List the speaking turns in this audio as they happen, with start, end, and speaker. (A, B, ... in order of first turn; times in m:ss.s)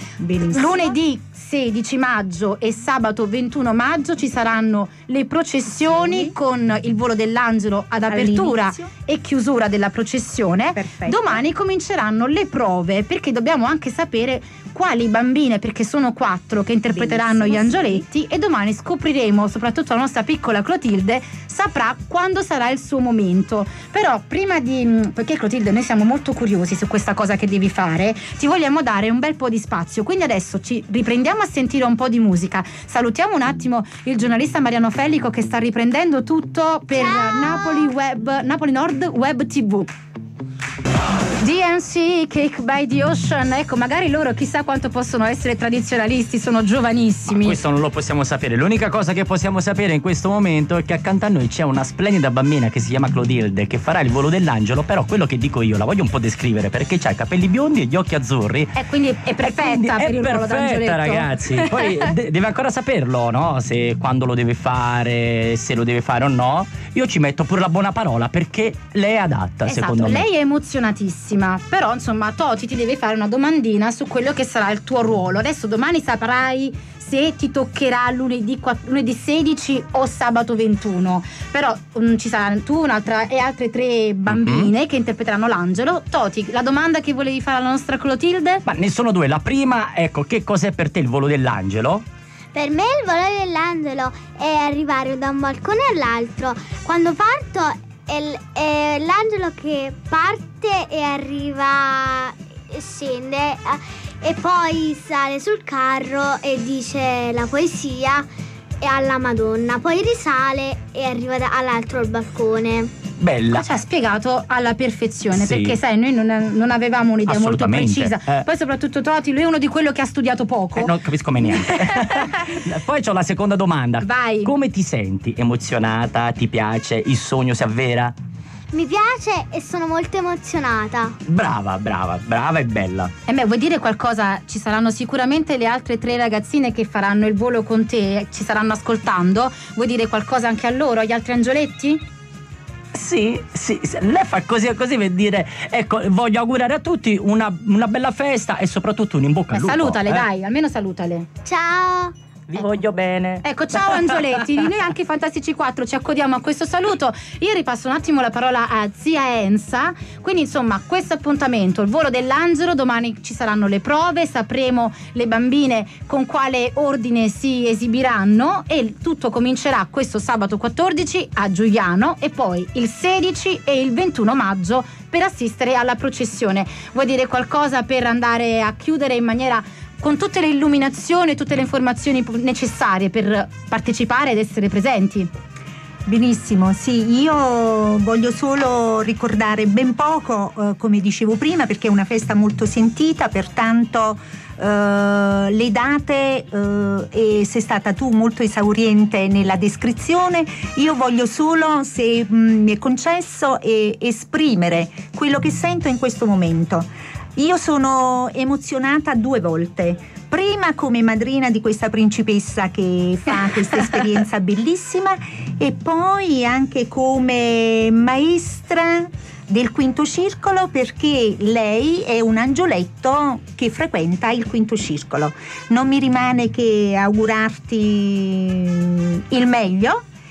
0:00.2-0:01.0 A
0:00.5-0:39.9 B
0:05.8-0:06.3 A
0:08.1-0:08.9 A
0:10.7-0:11.4 A
0:16.9-0:18.0 A
0:36.9-0:37.9 C
0:41.4-0:47.6 B
0:47.3-0:58.7 D
0:58.8-1:01.9 B
0:59.4-1:10.2 D
1:09.6-1:28.6 B
1:24.3-1:24.7 D
1:28.6-1:32.0 D
1:32.5-1:48.3 C
1:48.8-1:52.9 C
1:53.2-1:53.6 D
1:53.5-2:00.9 B
1:55.3-1:55.8 D
1:57.3-1:58.4 D
2:00.8-2:08.1 D
2:04.0-2:04.5 B
2:08.7-2:11.1 C
2:11.2-2:13.1 D
2:13.2-2:22.0 B
2:22.9-2:30.2 D
2:29.5-2:31.3 B
2:31.4-2:32.1 C
2:32.5-2:34.6 D
2:33.4-3:05.3 B
3:06.1-3:50.0 A